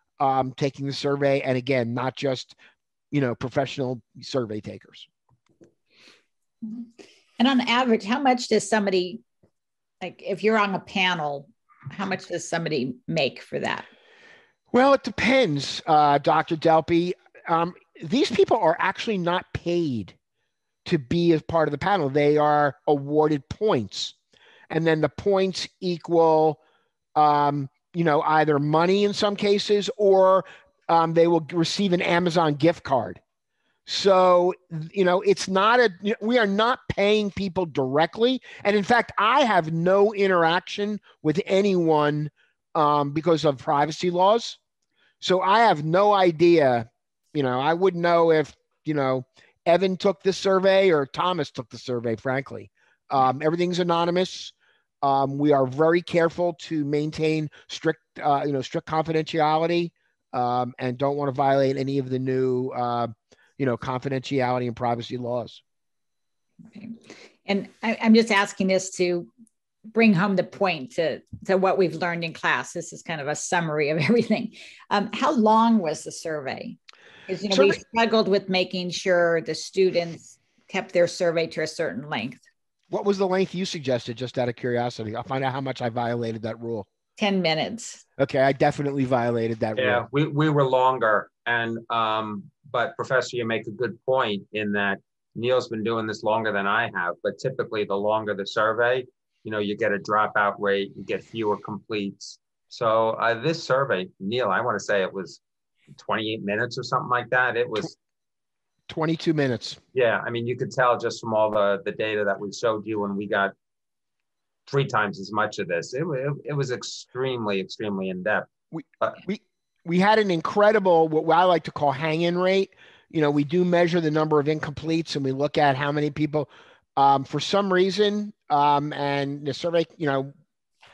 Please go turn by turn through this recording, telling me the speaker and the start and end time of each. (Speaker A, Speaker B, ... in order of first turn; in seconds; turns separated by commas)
Speaker A: 0.2-2.5, Speaker A: 3.1-5.1, Speaker B: 7.4-9.2, Speaker B: 10.0-13.9, Speaker A: 14.7-20.1, Speaker A: 20.8-24.1, Speaker A: 24.7-26.6, Speaker A: 27.1-33.2, Speaker A: 33.9-44.6, Speaker A: 45.2-65.6, Speaker B: 66.7-69.3, Speaker B: 69.9-82.4, Speaker A: 77.5-77.8, Speaker A: 82.9-86.8, Speaker B: 87.2-88.0, Speaker A: 88.2-90.0, Speaker C: 89.8-105.4, Speaker C: 105.9-107.9, Speaker A: 108.9-109.8, Speaker C: 109.9-113.5, Speaker C: 114.7-118.5, Speaker A: 118.7-130.3